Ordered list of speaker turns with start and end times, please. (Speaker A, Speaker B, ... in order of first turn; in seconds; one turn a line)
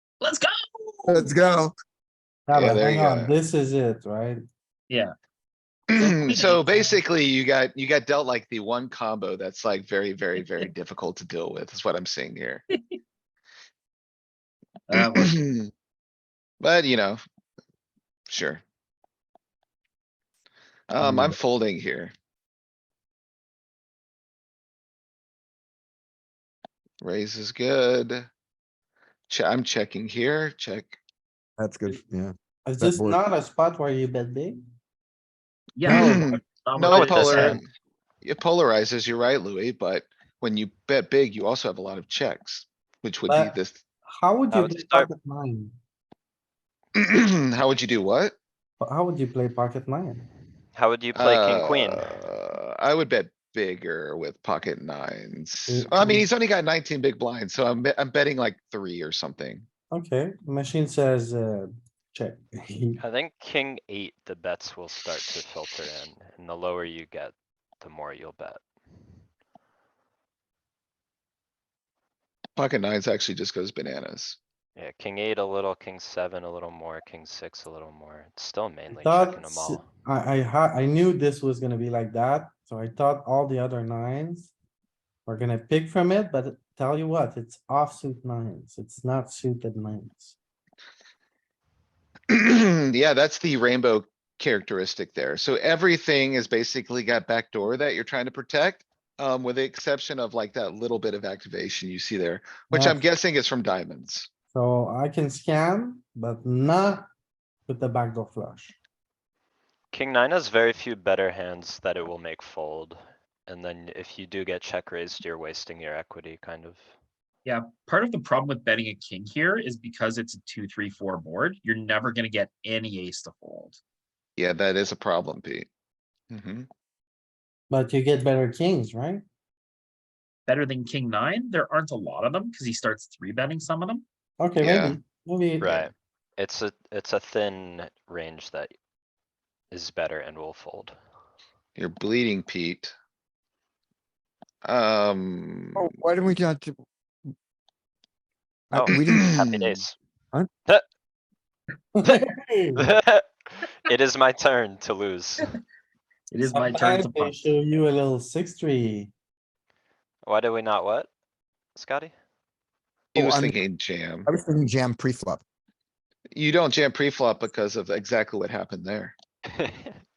Speaker A: 0.2-1.3
Speaker B: 1.1-1.7
Speaker C: 2.5-4.4
Speaker D: 2.5-3.4
Speaker D: 5.9-12.6
Speaker A: 5.9-7.0
Speaker A: 14.9-15.4
Speaker D: 15.1-15.7
Speaker D: 16.6-17.2
Speaker D: 18.3-18.6
Speaker D: 20.9-22.1
Speaker B: 21.0-21.4
Speaker D: 27.0-28.3
Speaker D: 29.3-31.0
Speaker B: 31.6-33.2
Speaker C: 32.7-34.6
Speaker A: 35.8-37.6
Speaker D: 35.8-37.6
Speaker B: 35.9-36.3
Speaker E: 36.9-37.6
Speaker D: 38.2-43.8
Speaker C: 43.3-45.7
Speaker E: 44.5-45.1
Speaker D: 46.9-48.4
Speaker C: 48.8-50.2
Speaker E: 50.7-52.2
Speaker D: 51.1-59.6
Speaker C: 55.7-56.2
Speaker C: 59.9-63.0
Speaker E: 63.0-68.6
Speaker D: 72.6-74.4
Speaker E: 74.8-79.9
Speaker C: 78.9-84.5
Speaker C: 85.2-90.3
Speaker D: 92.3-104.3
Speaker C: 102.7-103.0
Speaker C: 104.5-107.1
Speaker C: 107.7-108.8
Speaker E: 109.9-116.8
Speaker A: 117.4-123.8
Speaker D: 124.4-125.7
Speaker D: 126.3-126.7
Speaker C: 127.7-129.2
Speaker A: 130.5-134.0
Speaker C: 134.4-135.9
Speaker D: 134.6-135.0
Speaker E: 135.6-138.7
Speaker E: 139.7-140.9
Speaker D: 141.8-142.9
Speaker D: 144.6-145.9
Speaker B: 145.8-146.8
Speaker B: 148.7-149.4
Speaker E: 148.7-149.9
Speaker C: 151.9-152.9
Speaker E: 152.8-155.5
Speaker A: 156.3-157.4
Speaker C: 156.5-159.1
Speaker E: 160.2-161.1
Speaker E: 161.8-162.1
Speaker D: 163.1-164.3
Speaker B: 163.1-163.6
Speaker B: 164.2-165.4
Speaker D: 166.3-169.2
Speaker E: 169.6-169.9